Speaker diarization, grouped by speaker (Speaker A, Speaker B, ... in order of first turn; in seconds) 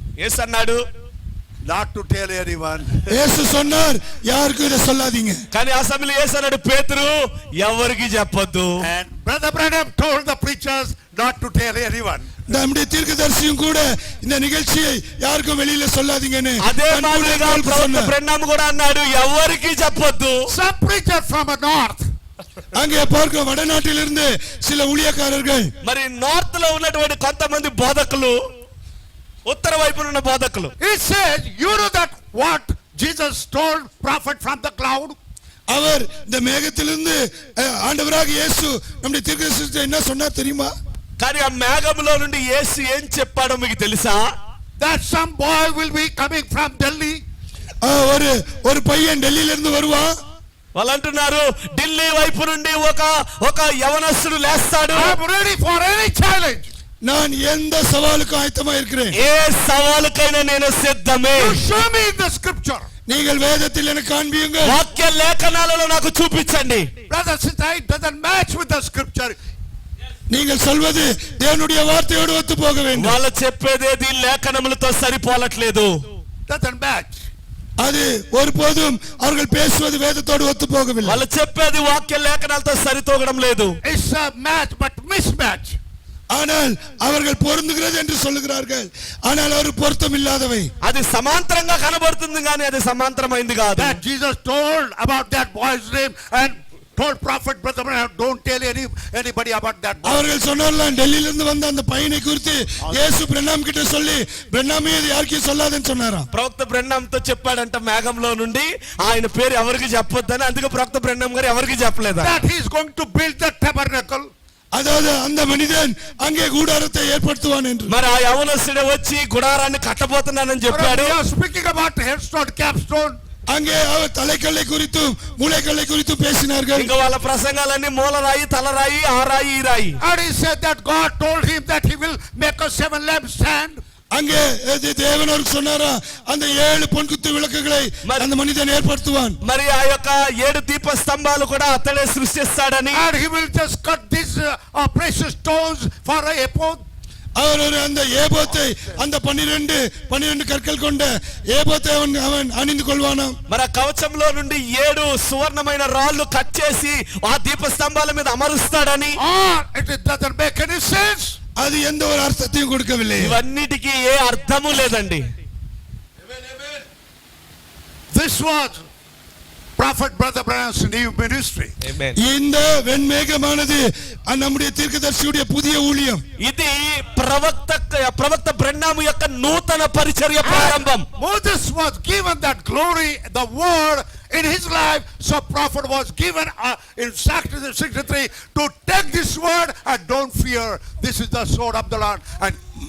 Speaker A: 0.2-0.8, 5.5-8.8, 16.6-20.4, 25.8-28.4, 29.4-30.7, 41.2-44.3, 50.7-55.2, 59.1-61.6, 64.6-66.9, 72.9-76.0, 81.0-83.7, 90.8-94.0, 106.3-112.3, 117.9-121.1, 126.7-130.0, 139.4-143.0, 153.5-159.2, 163.2-165.3, 171.8-172.2, 176.4-181.1
Speaker B: 1.6-3.1, 8.8-12.3, 20.5-22.0, 30.8-35.1, 44.8-47.2, 54.9-56.7, 61.3-62.9, 67.1-69.4, 76.5-77.2, 83.8-85.8, 93.8-100.3, 102.8-103.1, 112.2-114.3, 120.7-123.2, 130.0-133.8, 142.9-146.8, 159.2-161.4, 168.1-168.9, 169.8-171.7, 180.4-192.6
Speaker C: 3.1-5.4, 12.5-18.1, 22.7-25.7, 35.7-40.7, 47.8-50.1, 57.0-59.1, 63.1-64.8, 70.3-73.2, 77.8-81.2, 86.3-90.7, 100.0-106.3, 114.7-117.9, 123.5-126.9, 134.1-139.4, 147.4-153.3, 161.6-163.4, 172.2-176.2